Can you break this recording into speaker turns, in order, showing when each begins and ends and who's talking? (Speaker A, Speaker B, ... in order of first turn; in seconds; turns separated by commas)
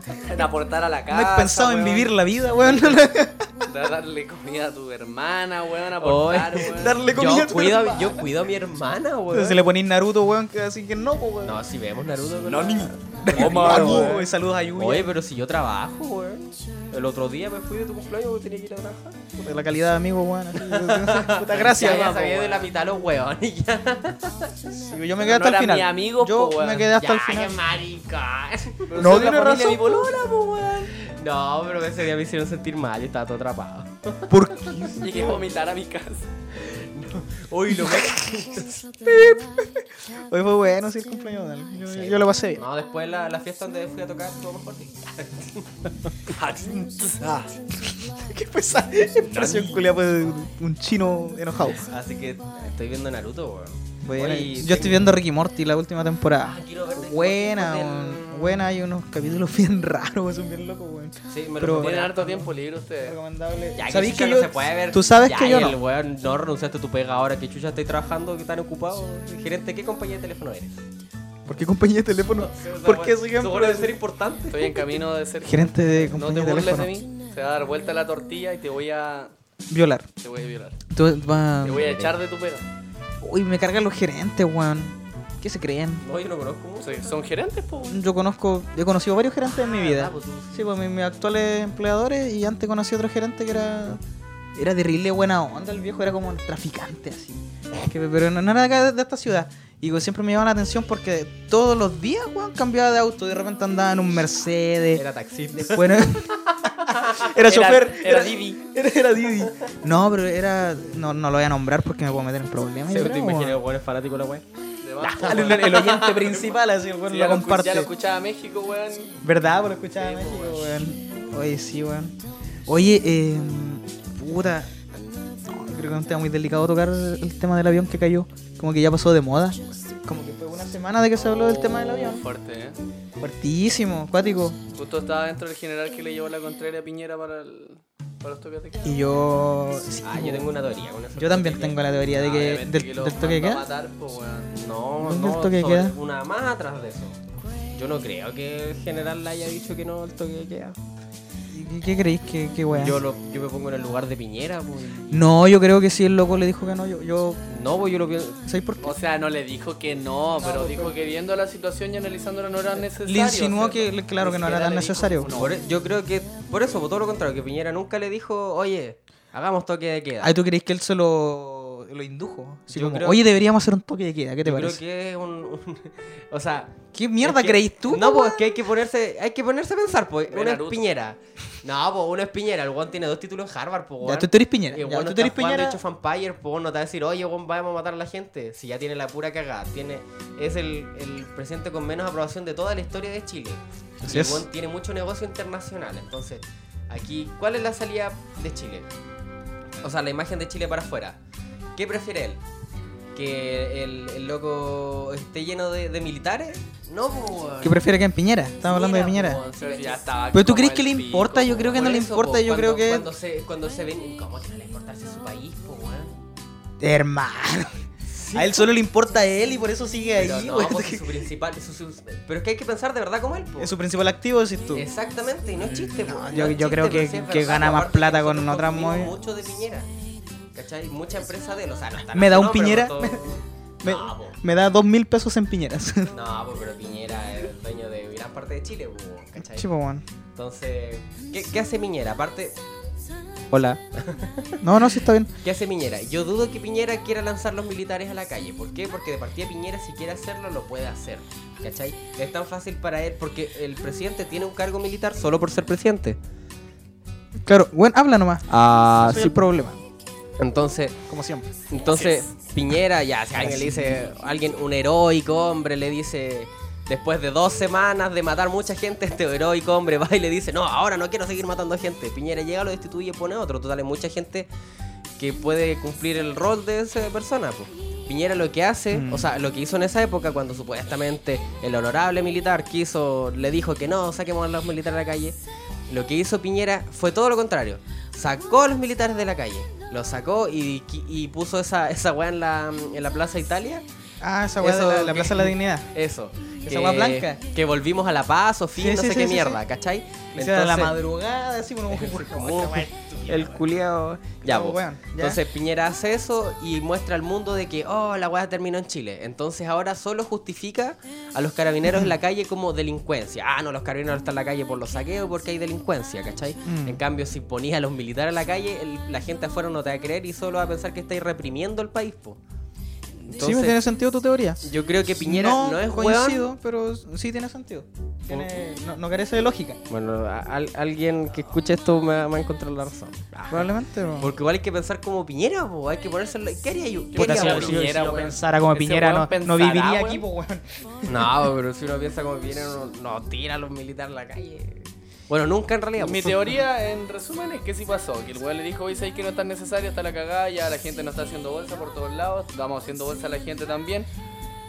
Speaker A: 0.2-2.1, Speaker B: 1.1-3.5, Speaker A: 3.6-7.0, Speaker C: 6.0-9.6, Speaker B: 6.6-8.3, Speaker B: 9.3-11.6, Speaker C: 11.4-14.1, Speaker A: 12.4-14.2, Speaker B: 13.2-15.1, Speaker C: 14.8-19.2, Speaker B: 19.4-22.4, Speaker C: 20.6-24.5, Speaker A: 21.7-22.7, Speaker B: 24.7-27.6, Speaker A: 25.2-26.9, Speaker C: 27.0-29.0, Speaker A: 28.9-30.9, Speaker B: 29.0-30.1, Speaker C: 30.9-34.9, Speaker B: 34.3-35.4, Speaker A: 35.0-36.3, Speaker C: 36.5-38.9, Speaker B: 37.7-38.1, Speaker B: 39.0-42.6, Speaker C: 41.8-47.5, Speaker B: 47.8-51.9, Speaker C: 49.3-49.7, Speaker C: 51.6-55.1, Speaker B: 54.0-62.4, Speaker C: 56.4-58.6, Speaker C: 61.3-62.4, Speaker A: 61.8-63.1, Speaker B: 63.0-65.8, Speaker C: 63.8-70.8, Speaker B: 71.5-74.0, Speaker C: 72.3-74.9, Speaker A: 74.5-79.3, Speaker B: 75.4-76.9, Speaker B: 79.7-80.1, Speaker A: 80.2-80.8, Speaker B: 80.9-81.9, Speaker A: 81.6-82.7, Speaker C: 81.8-82.1, Speaker B: 83.2-86.0, Speaker C: 86.0-87.2, Speaker A: 86.8-88.0, Speaker B: 87.9-94.0, Speaker C: 89.4-90.7, Speaker B: 94.5-105.0, Speaker C: 104.9-107.3, Speaker B: 105.6-106.3, Speaker B: 106.9-113.6, Speaker A: 107.4-108.6, Speaker C: 112.9-114.4, Speaker A: 114.8-115.8, Speaker C: 115.0-116.5, Speaker B: 115.2-117.9, Speaker A: 117.1-119.2, Speaker B: 119.2-122.2, Speaker A: 120.0-120.7, Speaker B: 122.7-124.7, Speaker B: 125.4-132.2, Speaker A: 131.2-132.8, Speaker B: 133.2-134.6, Speaker A: 134.7-139.0, Speaker B: 138.8-140.5, Speaker C: 140.0-141.8, Speaker B: 141.2-143.6, Speaker A: 142.1-144.5, Speaker C: 144.5-147.2, Speaker B: 145.0-145.9, Speaker C: 147.7-150.8, Speaker B: 151.5-153.0, Speaker C: 152.7-155.2, Speaker B: 155.1-157.4, Speaker C: 157.5-158.4, Speaker B: 158.4-158.9, Speaker A: 158.8-165.6, Speaker B: 160.3-160.9, Speaker B: 163.1-165.4, Speaker C: 165.3-170.3, Speaker B: 170.2-174.8, Speaker C: 172.7-173.2, Speaker C: 174.4-198.9, Speaker B: 176.9-178.6, Speaker A: 180.3-180.9, Speaker B: 184.0-185.8, Speaker B: 194.0-194.4, Speaker C: 199.8-201.2, Speaker C: 201.8-202.4, Speaker C: 203.1-207.9, Speaker B: 207.6-209.4, Speaker C: 208.6-210.1, Speaker A: 209.6-211.8, Speaker B: 210.3-213.1, Speaker C: 211.7-216.2, Speaker B: 216.8-221.2, Speaker C: 218.1-218.8, Speaker C: 220.2-223.7, Speaker B: 223.6-224.8, Speaker C: 224.7-229.9, Speaker B: 225.6-229.2, Speaker C: 230.5-234.4, Speaker B: 232.1-236.1, Speaker C: 236.1-239.7, Speaker B: 239.4-240.0, Speaker C: 240.3-242.6, Speaker B: 243.5-243.8, Speaker C: 243.9-244.8, Speaker B: 244.6-245.3, Speaker C: 245.4-256.2, Speaker B: 257.4-259.8, Speaker C: 258.5-259.4, Speaker C: 260.4-261.0, Speaker B: 261.1-261.5, Speaker C: 261.7-274.5, Speaker A: 261.8-262.3, Speaker B: 263.4-264.0, Speaker C: 275.2-285.4, Speaker B: 278.9-279.3, Speaker C: 285.9-293.8, Speaker B: 294.2-295.9, Speaker C: 294.6-300.9, Speaker B: 296.7-297.4, Speaker B: 298.8-299.6, Speaker B: 300.3-303.6, Speaker C: 301.9-322.4, Speaker B: 304.4-305.4, Speaker B: 311.9-312.1, Speaker B: 316.6-317.0, Speaker C: 323.2-323.8, Speaker B: 323.3-329.8, Speaker C: 324.6-326.4, Speaker C: 329.9-337.9, Speaker B: 333.5-334.3, Speaker A: 337.1-340.2, Speaker B: 337.1-341.5, Speaker C: 341.1-346.5, Speaker A: 346.0-354.1